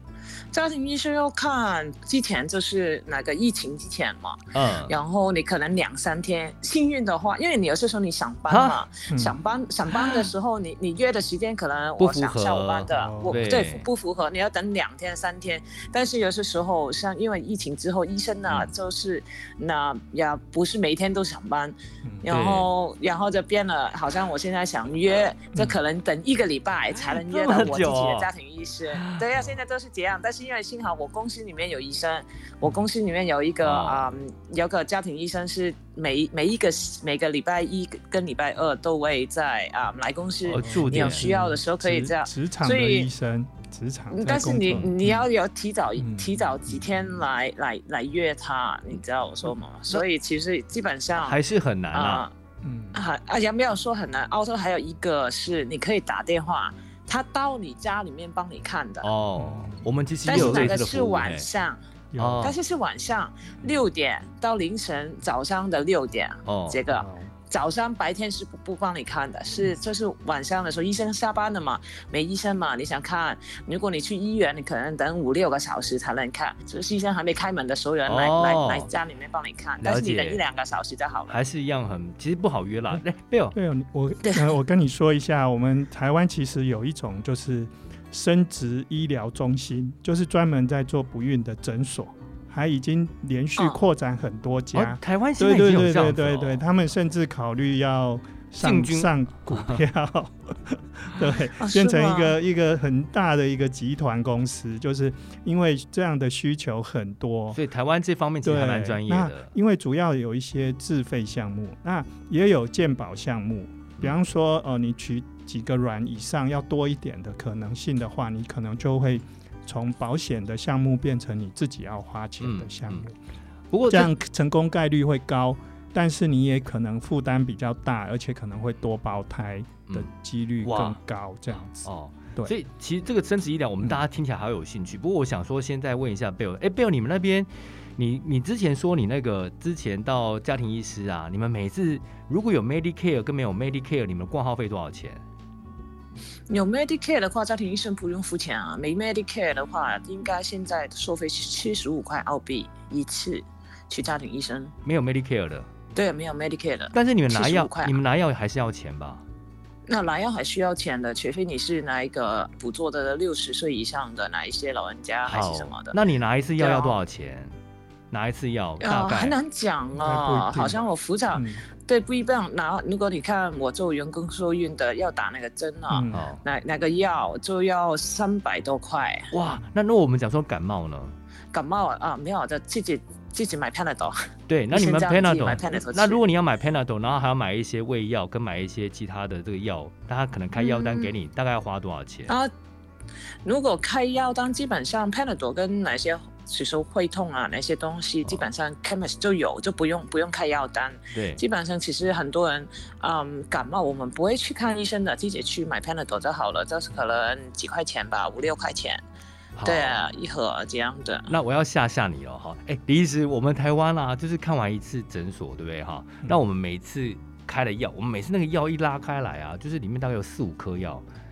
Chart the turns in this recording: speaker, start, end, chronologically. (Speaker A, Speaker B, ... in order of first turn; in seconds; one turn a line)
Speaker A: 0.5-43.1
Speaker B: 4.5-4.9
Speaker B: 8.5-8.8
Speaker C: 9.1-9.4
Speaker B: 12.0-13.9
Speaker C: 12.9-13.6
Speaker B: 22.3-22.7
Speaker B: 26.9-28.3
Speaker B: 28.9-29.2
Speaker B: 33.6-34.2
Speaker B: 40.5-41.3
Speaker C: 40.6-45.2
Speaker A: 44.1-51.4
Speaker C: 46.0-47.1
Speaker B: 51.2-52.2
Speaker A: 51.9-52.3
Speaker C: 52.6-53.0
Speaker A: 52.9-59.1
Speaker B: 59.0-61.5
Speaker C: 59.4-60.8
Speaker A: 60.3-61.8
Speaker C: 62.1-62.6
Speaker B: 62.2-62.6
Speaker A: 62.4-81.4
Speaker B: 66.5-66.8
Speaker C: 66.9-67.3
Speaker B: 78.1-78.9
Speaker B: 79.8-80.4
Speaker B: 81.3-83.5
Speaker C: 83.5-107.6
Speaker A: 84.2-84.5
Speaker B: 94.7-96.6
Speaker B: 98.6-99.8
Speaker A: 101.6-102.3
Speaker B: 107.5-109.5
Speaker C: 108.4-123.2
Speaker B: 122.4-123.1
Speaker B: 123.7-124.1
Speaker C: 123.9-132.5
Speaker B: 130.6-131.0
Speaker B: 131.8-145.2
Speaker A: 146.5-154.7
Speaker B: 154.8-155.7
Speaker A: 155.9-158.0
Speaker B: 156.9-159.2
Speaker A: 159.9-166.0
Speaker B: 165.2-167.5
Speaker A: 166.6-167.0
Speaker B: 168.1-169.4
Speaker A: 168.8-179.3
Speaker C: 170.0-171.7
Speaker C: 175.9-176.3
Speaker B: 176.1-176.4
Speaker B: 179.3-181.2
Speaker A: 181.5-184.2
Speaker B: 184.5-192.3
Speaker A: 184.7-186.2
Speaker A: 190.6-191.1
Speaker A: 193.4-209.0
Speaker B: 201.1-201.4
Speaker B: 209.6-210.0
Speaker A: 209.6-211.3
Speaker B: 211.3-221.1